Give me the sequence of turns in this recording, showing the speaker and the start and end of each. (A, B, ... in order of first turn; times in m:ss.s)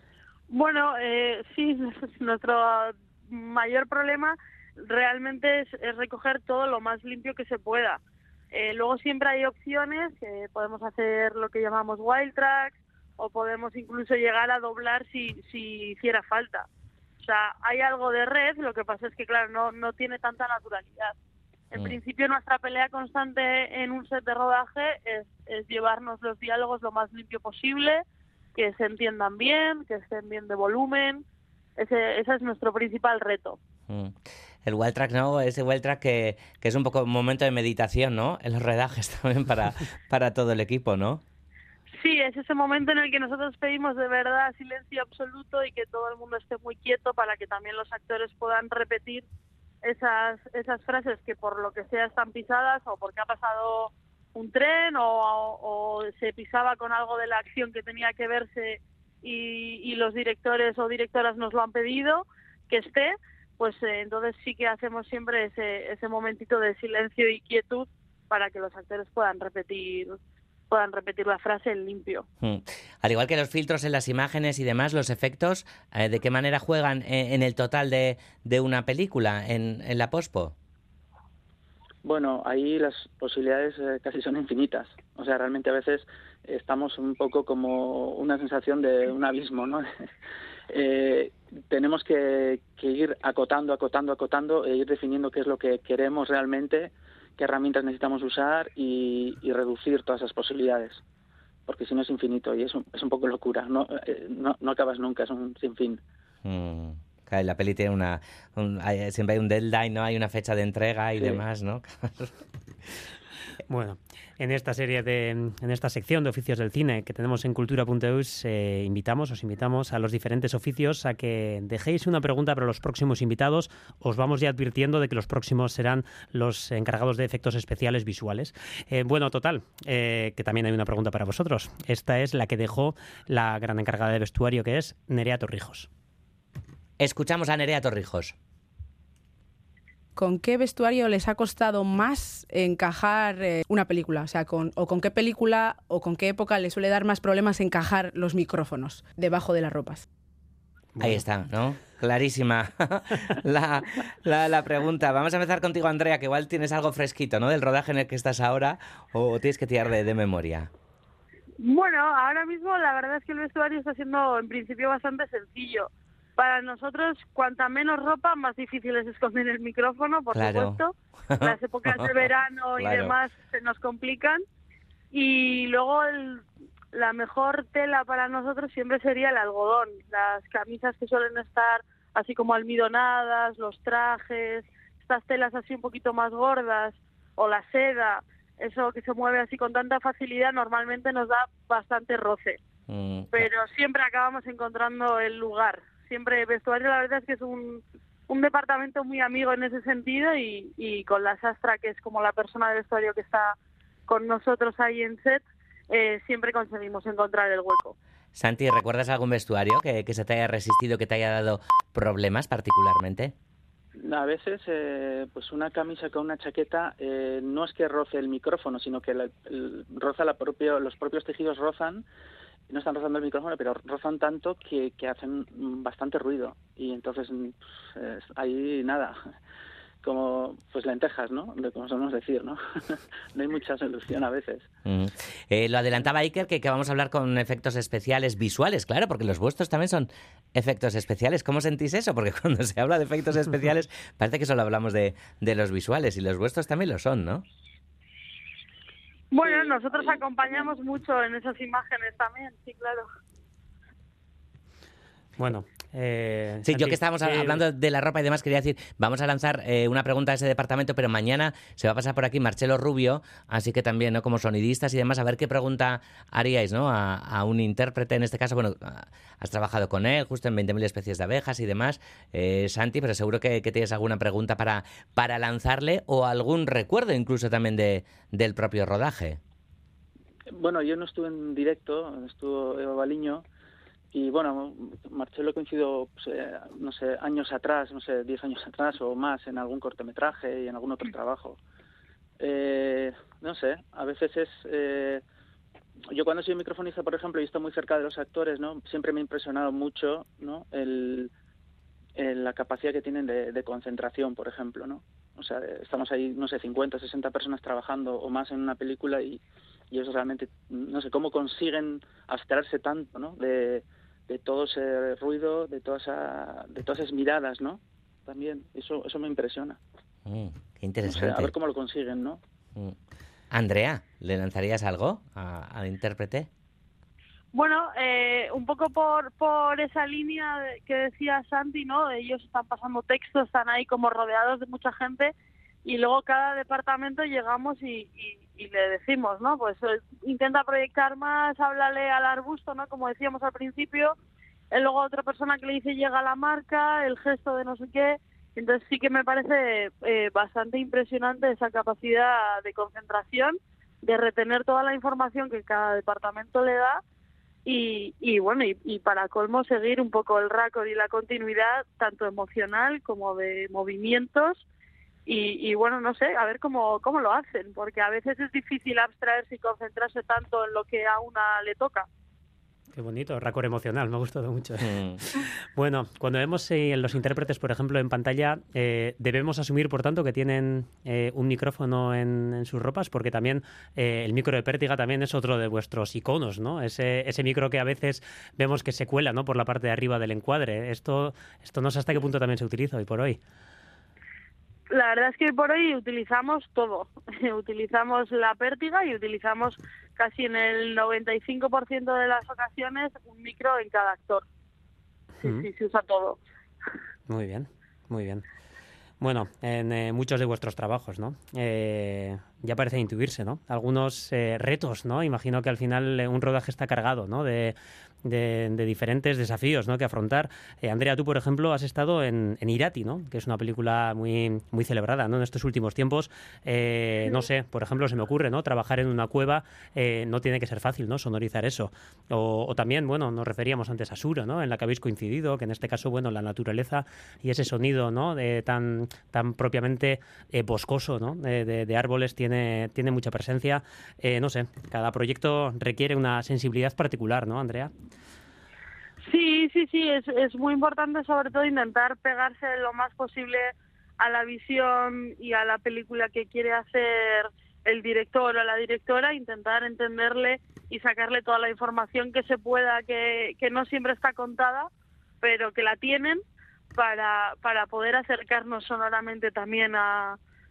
0:00.5-0:08.0 A
0:08.5-0:16.7 A
0:17.2-0:21.1 A
0:21.7-0:28.0 A
0:28.6-0:31.2 A
0:31.8-0:33.6 A
0:33.9-0:41.2 B
0:42.0-0:49.2 A
0:49.8-1:10.2 A
1:10.7-1:12.2 A
1:12.4-1:20.5 B
1:22.0-1:29.9 C
1:30.7-1:41.0 C
1:41.7-1:46.0 C
1:46.4-1:52.3 B
1:53.7-2:15.9 D
2:17.0-2:18.3 B
2:20.2-2:30.0 E
2:31.0-2:31.2 D
2:31.0-2:40.7 B
2:41.6-2:54.4 A
2:50.3-2:50.8 B
2:51.3-2:52.1 B
2:52.8-2:53.1 B
2:55.1-3:12.6 A
3:12.9-3:13.5 B
3:13.3-3:23.6 A
3:24.1-3:27.9 A
3:28.3-3:33.3 B
3:34.0-3:42.0 C
3:42.7-3:49.2 C
3:50.0-3:54.7 C
3:54.8-4:07.4 B
4:09.3-4:13.1 A
4:09.4-4:10.7 C
4:15.4-4:17.6 D
4:16.6-4:39.4 B
4:40.5-4:43.4 C
4:44.1-4:51.6 C
4:52.4-4:55.2 C
4:56.1-5:01.3 C
5:02.2-5:19.8 C
5:20.2-5:21.5 B
5:21.0-5:22.4 C
5:23.5-5:26.5 B
5:27.5-5:35.3 A
5:35.8-5:44.1 A
5:44.7-5:57.0 A
5:57.6-6:04.6 A
6:05.2-6:12.1 A
6:12.9-6:14.9 D
6:14.8-6:15.2 B
6:15.8-6:33.4 D
6:34.9-6:44.4 A
6:45.4-6:45.7 D
6:45.4-6:46.4 A
6:47.3-6:48.4 D
6:49.2-7:27.9 D
7:29.2-7:44.9 A
7:45.4-7:46.4 A
7:46.9-7:50.4 A